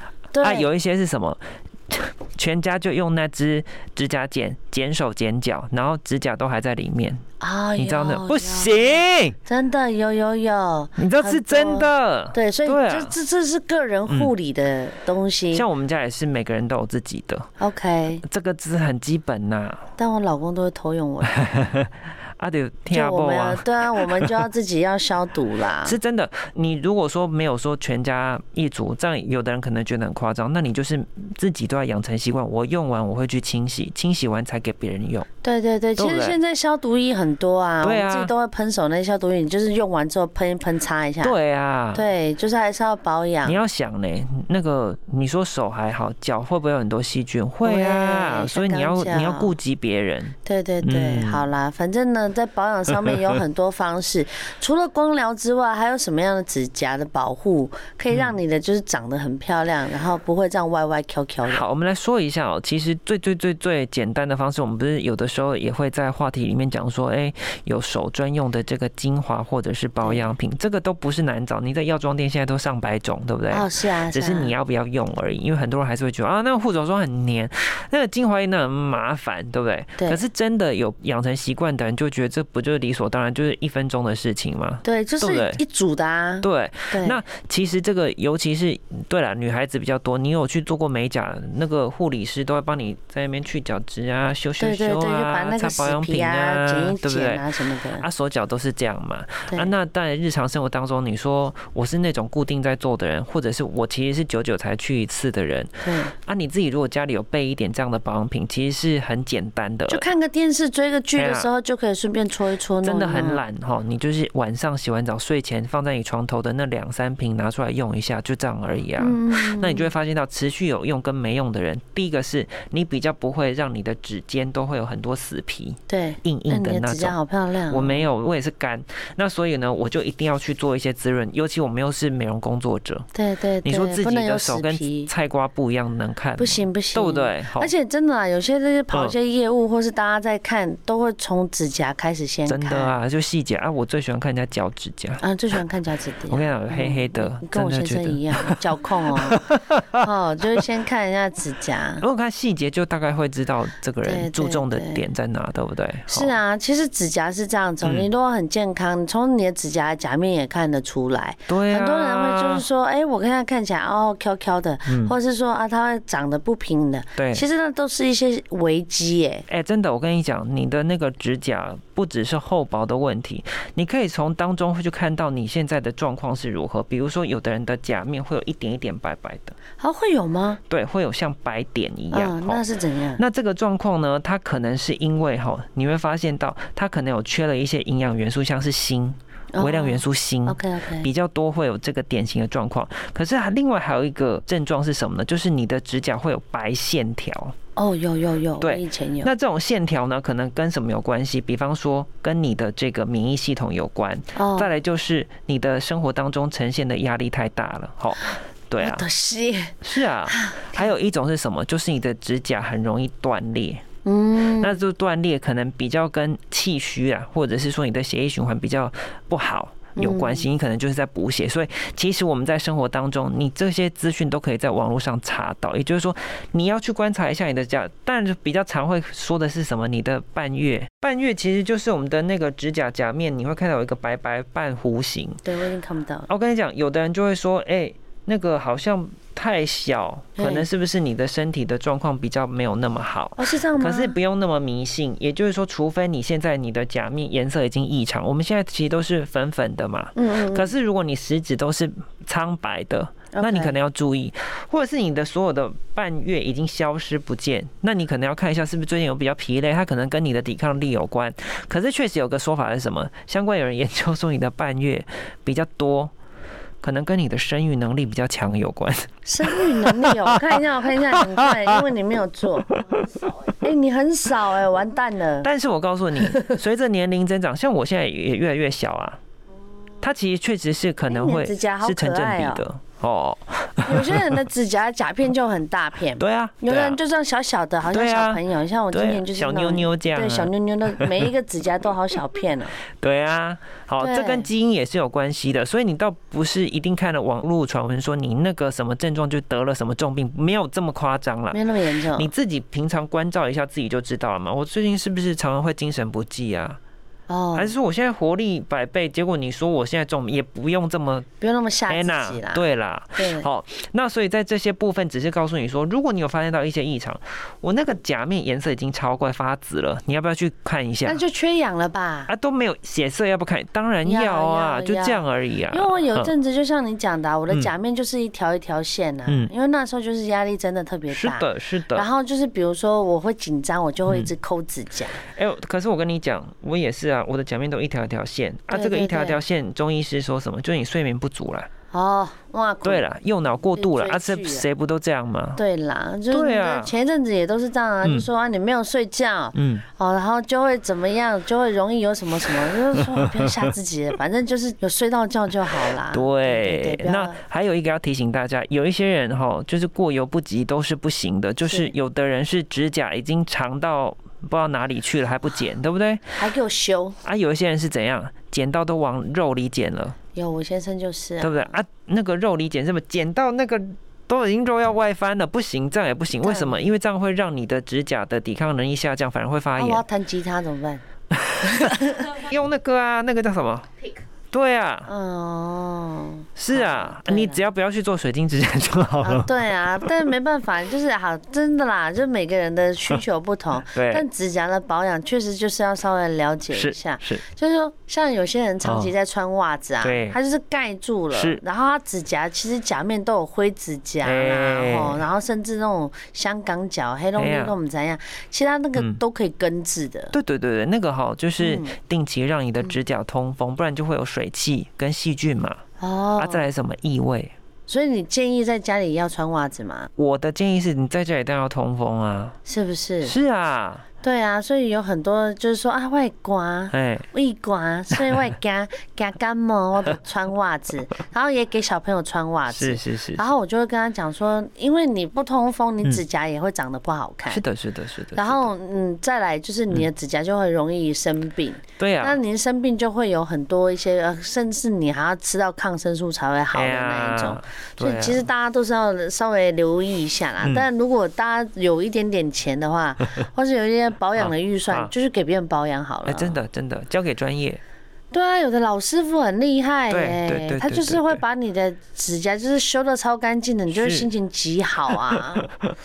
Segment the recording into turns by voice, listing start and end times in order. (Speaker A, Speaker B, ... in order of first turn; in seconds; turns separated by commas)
Speaker A: 0.3-0.7, Speaker B: 0.4-7.2, Speaker A: 7.4-15.7, Speaker B: 7.8-9.4, Speaker B: 11.0-13.1, Speaker B: 15.5-17.5, Speaker A: 17.6-18.2, Speaker B: 18.2-19.8, Speaker A: 20.0-21.7, Speaker B: 21.4-24.3, Speaker A: 22.9-26.0, Speaker B: 25.8-35.2, Speaker A: 35.4-41.4, Speaker B: 36.0-36.4, Speaker B: 37.8-38.3, Speaker B: 41.2-42.0, Speaker A: 41.9-43.6, Speaker B: 43.4-51.5, Speaker A: 47.6-49.5, Speaker A: 50.4-61.6, Speaker B: 61.5-85.6, Speaker A: 70.0-70.3, Speaker A: 73.5-74.5, Speaker A: 84.8-87.2, Speaker B: 86.4-97.5, Speaker A: 94.6-98.0, Speaker B: 98.0-110.1, Speaker A: 105.8-106.1, Speaker A: 109.9-113.4, Speaker B: 111.2-111.5, Speaker B: 112.8-127.1, Speaker A: 119.0-119.9, Speaker A: 125.9-128.1, Speaker B: 127.7-133.1, Speaker A: 133.1-135.1, Speaker B: 133.6-137.7, Speaker A: 136.4-142.9, Speaker B: 142.4-145.2, Speaker A: 145.2-152.0, Speaker B: 146.3-148.6, Speaker B: 149.3-150.0, Speaker B: 152.0-156.4, Speaker A: 154.0-155.0, Speaker A: 156.1-169.4, Speaker B: 157.8-158.1, Speaker B: 161.5-162.7, Speaker B: 164.9-165.1, Speaker B: 167.2-167.4, Speaker B: 169.5-179.6, Speaker A: 179.8-180.6, Speaker B: 180.7-182.6, Speaker A: 182.1-183.2, Speaker B: 183.2-197.5, Speaker A: 189.5-191.1, Speaker A: 197.8-199.3, Speaker B: 198.6-209.0, Speaker A: 204.3-204.7, Speaker A: 208.8-210.9, Speaker B: 209.8-213.8, Speaker A: 214.0-214.8, Speaker B: 214.6-235.4, Speaker A: 219.9-220.5, Speaker A: 235.4-236.3, Speaker B: 236.3-266.1, Speaker A: 240.4-240.7, Speaker A: 243.4-244.2, Speaker A: 250.2-250.7, Speaker A: 253.3-253.7, Speaker B: 266.8-271.7, Speaker A: 269.2-272.8, Speaker B: 272.7-273.1, Speaker A: 273.5-275.5, Speaker B: 275.4-279.2, Speaker A: 276.2-276.6, Speaker B: 280.0-284.4, Speaker A: 281.1-282.6, Speaker A: 283.9-292.8, Speaker B: 286.2-287.0, Speaker B: 287.9-291.2, Speaker B: 293.0-301.6, Speaker A: 294.0-294.5, Speaker A: 301.5-302.3, Speaker B: 302.1-306.8, Speaker A: 307.3-307.7, Speaker B: 307.5-311.2, Speaker A: 311.4-312.6, Speaker B: 311.9-321.2, Speaker A: 313.2-313.5, Speaker A: 321.0-322.3, Speaker B: 322.3-326.3, Speaker A: 324.0-335.2, Speaker B: 331.1-332.1, Speaker B: 334.1-334.3, Speaker B: 335.3-341.7, Speaker A: 338.7-339.4, Speaker A: 341.9-343.1, Speaker B: 342.8-345.6, Speaker A: 343.8-344.6, Speaker A: 345.6-357.4, Speaker B: 346.3-346.9, Speaker B: 348.0-348.3, Speaker B: 349.5-349.8, Speaker B: 353.1-353.5, Speaker B: 356.1-366.2, Speaker A: 361.6-361.9, Speaker A: 366.4-367.2, Speaker B: 367.2-370.1, Speaker A: 370.3-371.8, Speaker B: 371.4-380.0, Speaker A: 376.4-376.9, Speaker A: 379.8-381.0, Speaker B: 381.4-383.9, Speaker A: 381.6-382.4, Speaker B: 384.5-385.1, Speaker A: 385.1-387.6, Speaker B: 386.6-390.1, Speaker A: 389.2-410.3, Speaker B: 393.9-394.2, Speaker B: 396.7-397.4, Speaker B: 398.8-399.1, Speaker B: 400.0-400.4, Speaker B: 401.3-401.6, Speaker B: 404.2-405.2, Speaker B: 407.4-407.7, Speaker B: 410.3-415.8, Speaker A: 411.6-411.9, Speaker A: 416.0-416.6, Speaker B: 416.4-417.5, Speaker A: 417.9-420.1, Speaker B: 420.2-422.6, Speaker A: 422.6-423.4, Speaker B: 423.2-424.0, Speaker A: 424.2-437.6, Speaker B: 426.9-427.2, Speaker B: 428.1-428.5, Speaker B: 432.7-433.5, Speaker B: 437.5-438.7, Speaker A: 438.4-456.6, Speaker B: 442.0-442.4, Speaker B: 446.7-448.4, Speaker B: 454.4-455.1, Speaker B: 456.3-457.8, Speaker A: 458.3-465.7, Speaker B: 460.1-461.4, Speaker B: 463.9-464.3, Speaker B: 465.1-465.9